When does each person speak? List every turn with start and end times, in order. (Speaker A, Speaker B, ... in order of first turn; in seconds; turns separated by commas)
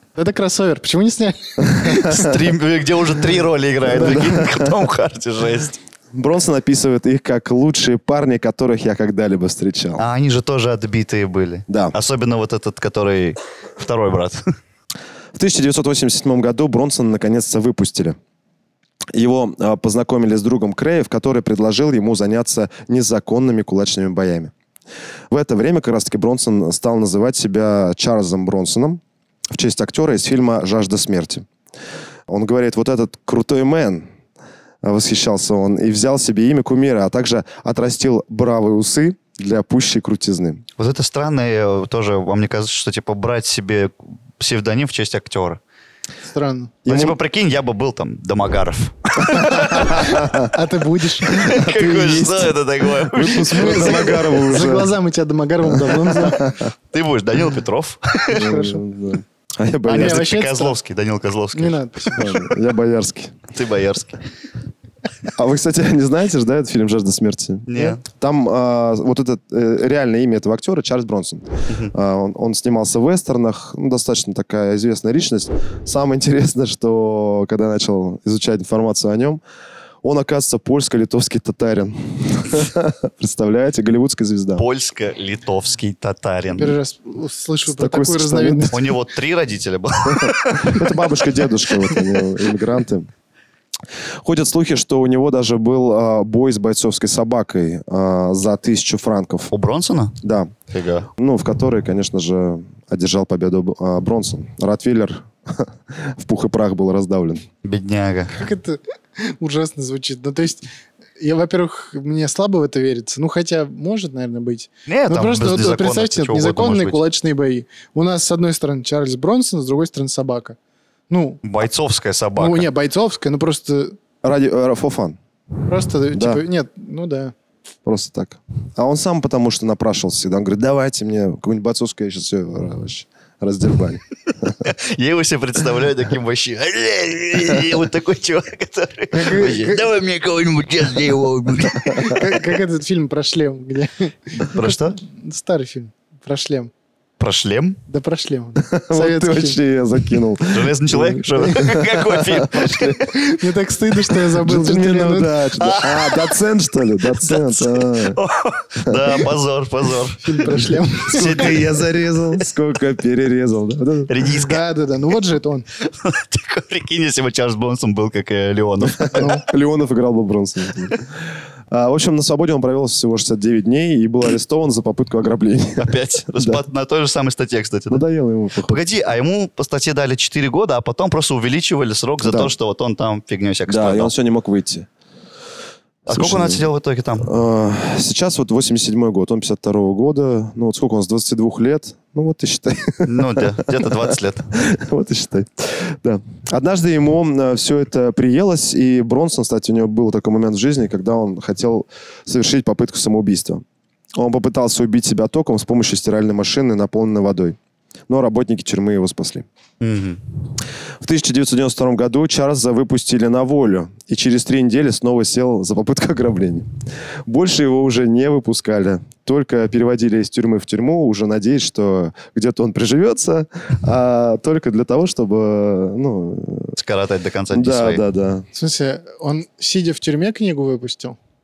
Speaker A: 0.2-2.0, Speaker B: 1.6-2.4, Speaker C: 1.9-5.8, Speaker B: 3.9-4.8, Speaker B: 6.1-10.0, Speaker C: 10.0-14.4, Speaker B: 11.7-11.9, Speaker B: 15.3-18.2, Speaker B: 19.1-24.5, Speaker B: 25.3-29.0, Speaker B: 29.5-31.5, Speaker B: 32.3-34.1, Speaker B: 34.8-40.6, Speaker C: 40.8-45.6, Speaker A: 46.3-46.8, Speaker B: 46.9-47.2, Speaker C: 46.9-50.3, Speaker B: 49.2-50.5, Speaker A: 49.6-51.6, Speaker C: 51.2-54.4, Speaker B: 51.3-54.9, Speaker A: 53.4-56.5, Speaker B: 55.7-56.7, Speaker C: 56.9-58.4, Speaker A: 58.3-58.8, Speaker B: 58.3-60.3, Speaker A: 59.9-60.8, Speaker C: 59.9-62.3, Speaker A: 61.5-62.5, Speaker B: 62.1-63.4, Speaker C: 63.5-64.2, Speaker B: 65.2-79.4, Speaker C: 67.7-68.0, Speaker B: 80.0-84.6, Speaker C: 84.6-86.8, Speaker A: 86.6-88.9, Speaker B: 87.7-88.8, Speaker C: 88.7-90.9, Speaker B: 90.1-93.1, Speaker B: 94.2-99.5, Speaker C: 99.5-100.2, Speaker B: 100.2-100.5, Speaker C: 100.7-101.1, Speaker B: 101.2-107.5, Speaker C: 107.6-108.4, Speaker A: 108.3-110.7, Speaker A: 111.2-120.6, Speaker C: 114.9-117.0, Speaker A: 121.1-121.4, Speaker C: 121.4-122.7, Speaker A: 122.4-124.0, Speaker B: 124.2-125.2, Speaker A: 125.7-127.3, Speaker B: 126.1-126.4, Speaker B: 127.8-134.6, Speaker C: 134.6-142.3, Speaker A: 139.1-139.8, Speaker B: 141.9-142.2, Speaker A: 141.9-146.7, Speaker C: 144.5-145.0, Speaker C: 147.2-147.8, Speaker A: 147.9-149.6, Speaker B: 148.6-153.1, Speaker C: 150.5-153.1, Speaker A: 153.1-155.5, Speaker B: 154.4-158.2, Speaker C: 155.6-156.4, Speaker C: 157.0-161.8, Speaker B: 158.8-159.2, Speaker A: 160.2-161.6, Speaker B: 161.1-164.1, Speaker C: 164.1-164.6, Speaker A: 164.3-165.7, Speaker C: 165.8-169.3, Speaker B: 168.8-171.1, Speaker A: 169.2-169.4, Speaker B: 171.7-176.6, Speaker C: 175.8-178.0, Speaker B: 177.9-178.8, Speaker C: 178.6-184.1, Speaker B: 182.2-182.5, Speaker B: 183.7-184.9, Speaker C: 186.1-187.3, Speaker B: 186.1-186.7, Speaker B: 187.2-203.6, Speaker C: 193.1-194.5, Speaker B: 204.2-207.6, Speaker B: 208.1-209.5, Speaker C: 209.8-210.2, Speaker B: 211.0-216.7, Speaker B: 217.3-226.8, Speaker C: 226.8-228.0, Speaker B: 227.5-228.5, Speaker A: 228.6-231.2